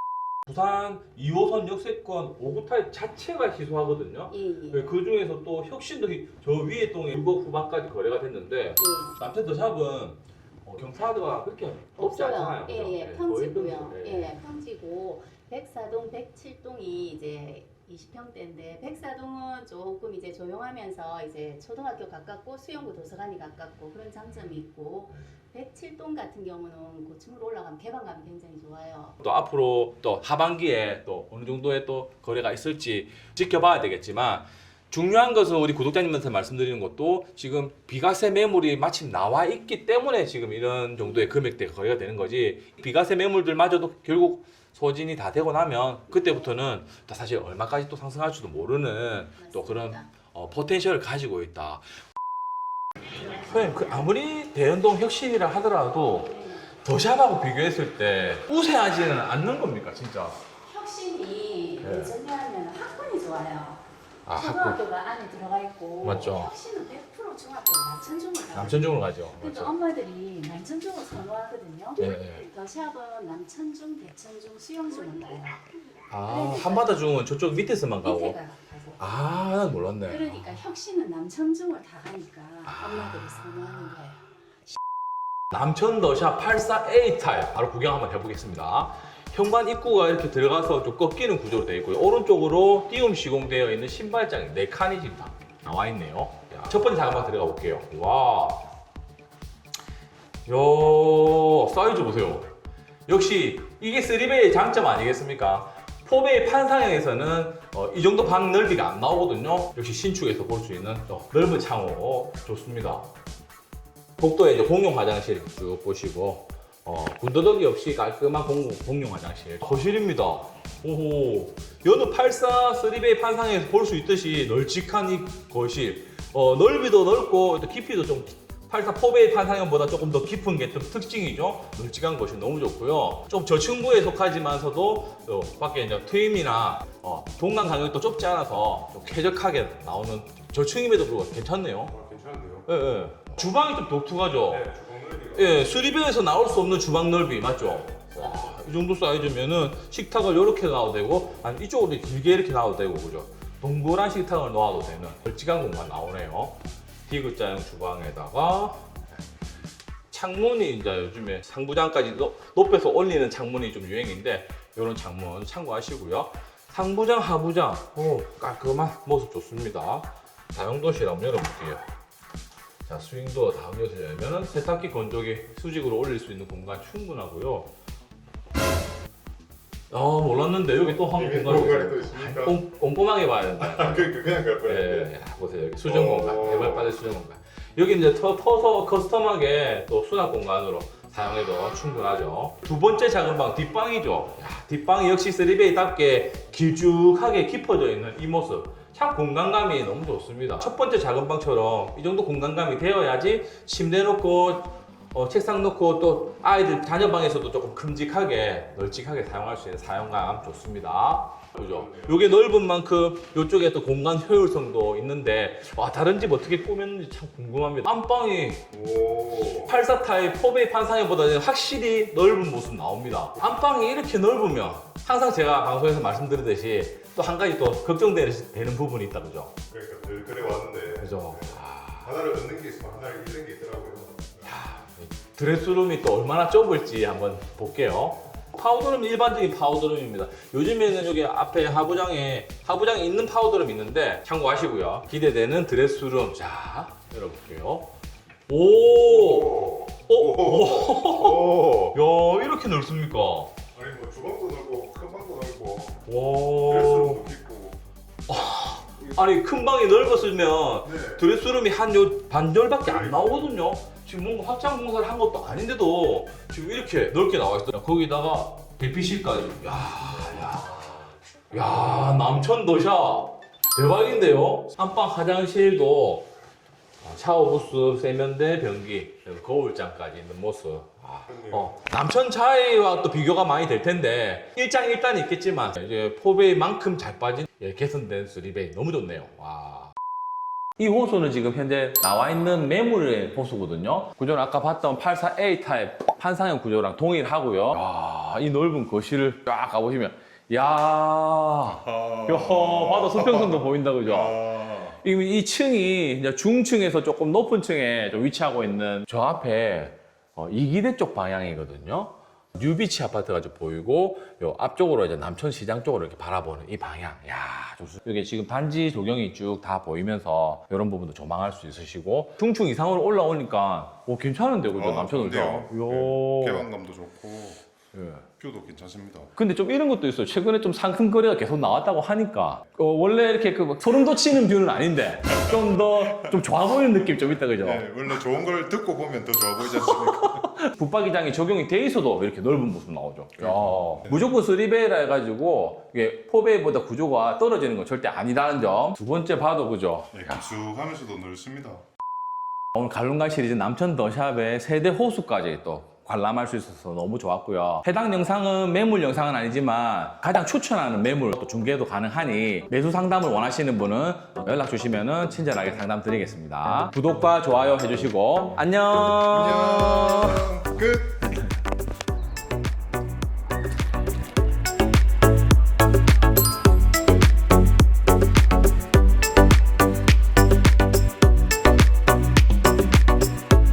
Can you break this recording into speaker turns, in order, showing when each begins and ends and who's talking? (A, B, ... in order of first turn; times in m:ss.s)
0:00.5-0:14.4 A
0:04.3-0:05.0 B
0:08.8-0:09.2 B
0:12.0-0:29.2 B
0:29.2-0:51.8 A
0:46.1-0:46.6 B
0:49.4-0:50.1 B
0:53.2-1:00.4 A
0:53.3-0:54.0 B
0:56.0-0:56.7 B
1:00.6-1:15.6 B
1:01.8-1:02.2 A
1:04.3-1:04.8 A
1:06.0-1:06.5 A
1:08.5-1:09.7 A
1:12.0-1:12.4 A
1:16.1-1:18.4 A
1:16.2-1:17.2 B
1:18.0-1:19.0 B
1:19.0-1:20.4 A
1:20.0-1:24.2 B
1:22.7-1:23.8 A
1:25.5-1:38.7 A
1:40.5-1:42.5 A
1:43.1-1:53.1 A
1:54.2-2:21.9 A
2:21.9-2:22.7 C
2:22.7-2:24.8 A
2:24.4-2:25.9 C
2:25.3-2:38.9 A
2:28.0-2:28.5 C
2:40.1-2:51.9 A
2:52.8-2:57.7 A
2:59.9-3:38.7 A
3:00.6-3:02.6 C
3:03.6-3:05.1 C
3:05.8-3:07.0 C
3:31.6-3:32.3 C
3:38.7-3:39.8 C
3:39.5-3:49.5 A
3:49.7-3:54.5 C
3:51.0-3:52.1 A
3:54.4-4:07.9 A
4:08.5-4:13.5 A
4:08.8-4:12.0 C
4:13.7-4:16.0 C
4:16.1-4:17.3 A
4:16.6-4:17.8 C
4:18.3-4:31.0 A
4:19.0-4:19.3 C
4:20.8-4:21.2 C
4:22.8-4:23.5 C
4:30.4-4:31.0 C
4:31.5-4:36.3 A
4:31.6-4:32.4 C
4:37.0-4:49.9 A
4:41.2-4:41.8 C
4:50.8-5:26.7 A
5:01.7-5:05.0 C
5:24.7-5:27.6 C
5:27.9-5:28.3 A
5:28.4-5:29.3 C
5:29.4-5:38.2 A
5:35.3-5:36.4 C
5:37.6-5:40.4 C
5:39.6-5:50.4 A
5:43.4-5:44.3 C
5:50.1-5:51.8 C
5:52.8-6:10.5 A
6:09.0-6:11.3 C